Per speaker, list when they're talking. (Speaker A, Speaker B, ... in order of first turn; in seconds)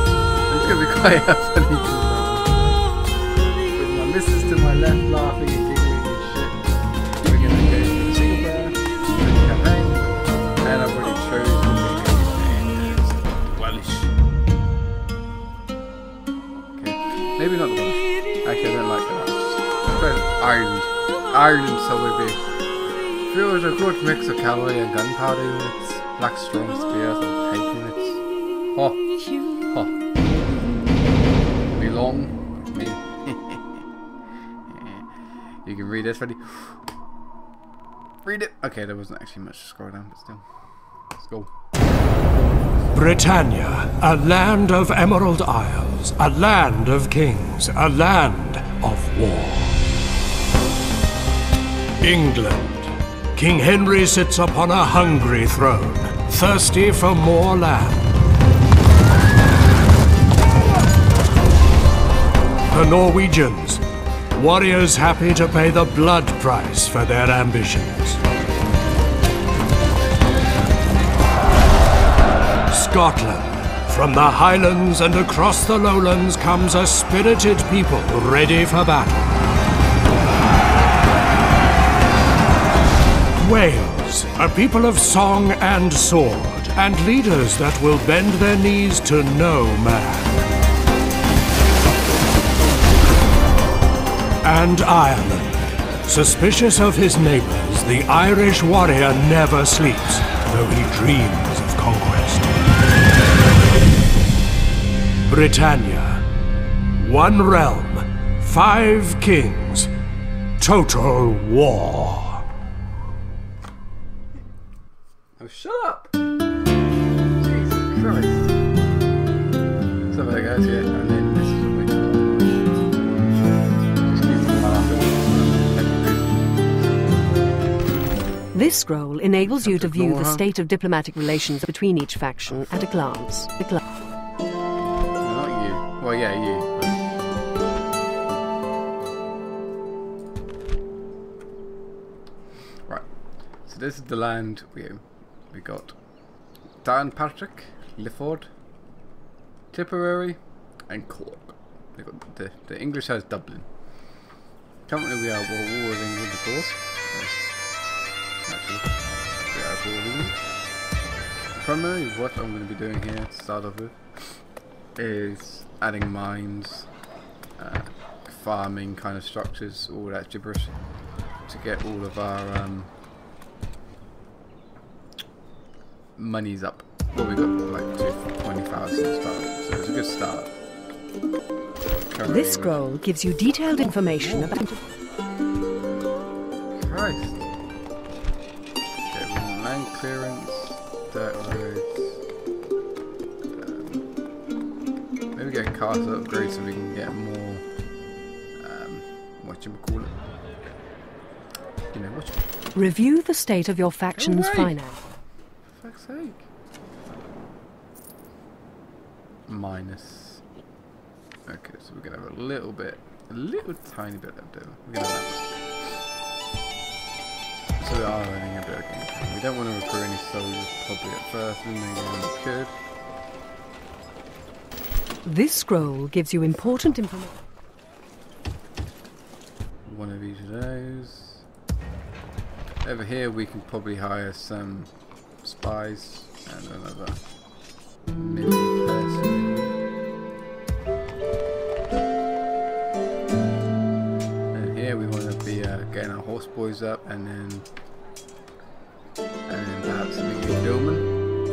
Speaker A: 0.5-2.9, 3.7-6.6, 7.2-10.0, 10.6-14.1, 16.7-22.4, 23.2-28.2, 28.7-30.0, 31.7-33.8, 34.7-35.0, 35.6-36.8, 38.2-40.5, 41.1-41.5, 115.4-116.1, 117.4-118.5, 120.1-123.3, 123.9-127.0, 129.4-130.4, 135.2-137.3, 143.7-145.9, 146.8-148.5, 149.7-153.7, 154.9-157.5, 158.4-160.4, 161.5-164.4, 164.9-166.9, 167.6-170.8, 171.4-172.9, 176.2-180.5, 182.1-182.8, 183.8-184.6, 186.7-187.4, 189.1-192.2, 193.5-194.0, 195.3-197.6, 198.6-200.2, 201.9-202.4, 204.1-204.8, 205.7-206.5, 209.5-210.4, 211.5-215.9, 217.8-222.7, 229.8-231.4, 232.8-234.9, 235.4-237.2, 238.1-239.7, 244.5-247.7, 249.5-251.1
Speaker B: 42.9-49.8, 52.0-58.0, 62.7-63.8, 64.3-68.2, 72.7-79.2, 83.3-90.3, 94.4-102.5, 105.3-106.2, 107.0-109.9, 110.6-112.4
Speaker C: 128.5-133.8, 182.3-184.8, 202.7-205.0, 225.2-227.3